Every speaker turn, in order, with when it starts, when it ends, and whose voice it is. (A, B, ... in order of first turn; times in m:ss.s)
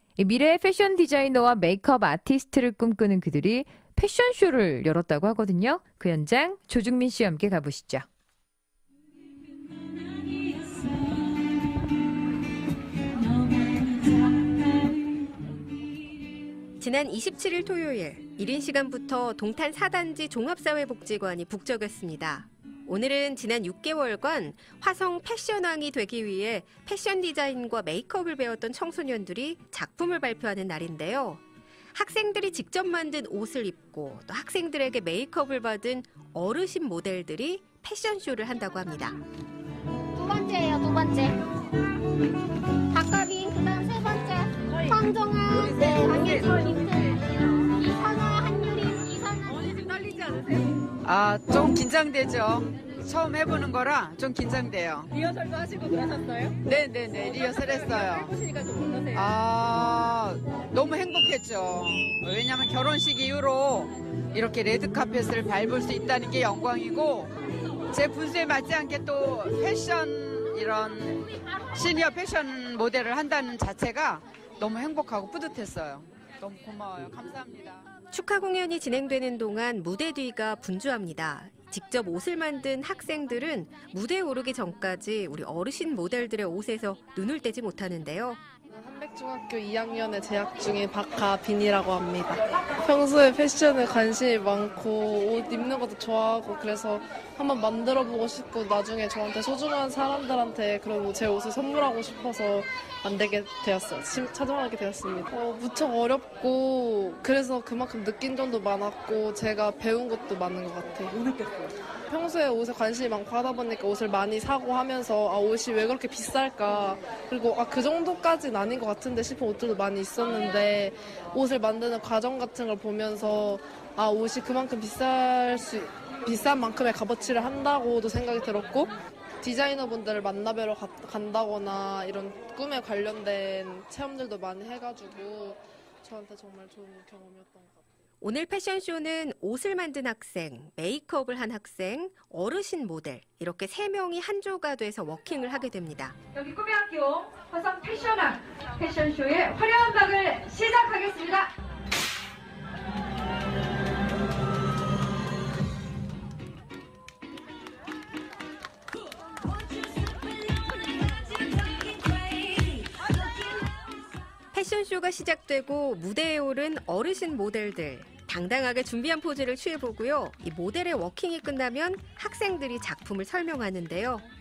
0:00.2-0:08.0 A
0:16.8-0:31.4 B
0:31.9-0:39.2 B
0:40.2-0:41.4 C
0:42.9-0:47.1 C
0:45.5-0:46.6 D
0:47.8-0:50.2 C
0:51.0-0:55.1 D
0:56.6-0:58.4 D
0:59.1-1:07.3 D
1:07.9-1:11.2 D
1:11.7-1:17.9 D
1:18.1-1:28.4 B
1:28.7-2:08.9 E
2:09.4-2:17.8 E
2:18.2-2:26.2 B
2:26.3-2:31.5 F
2:44.5-2:54.2 B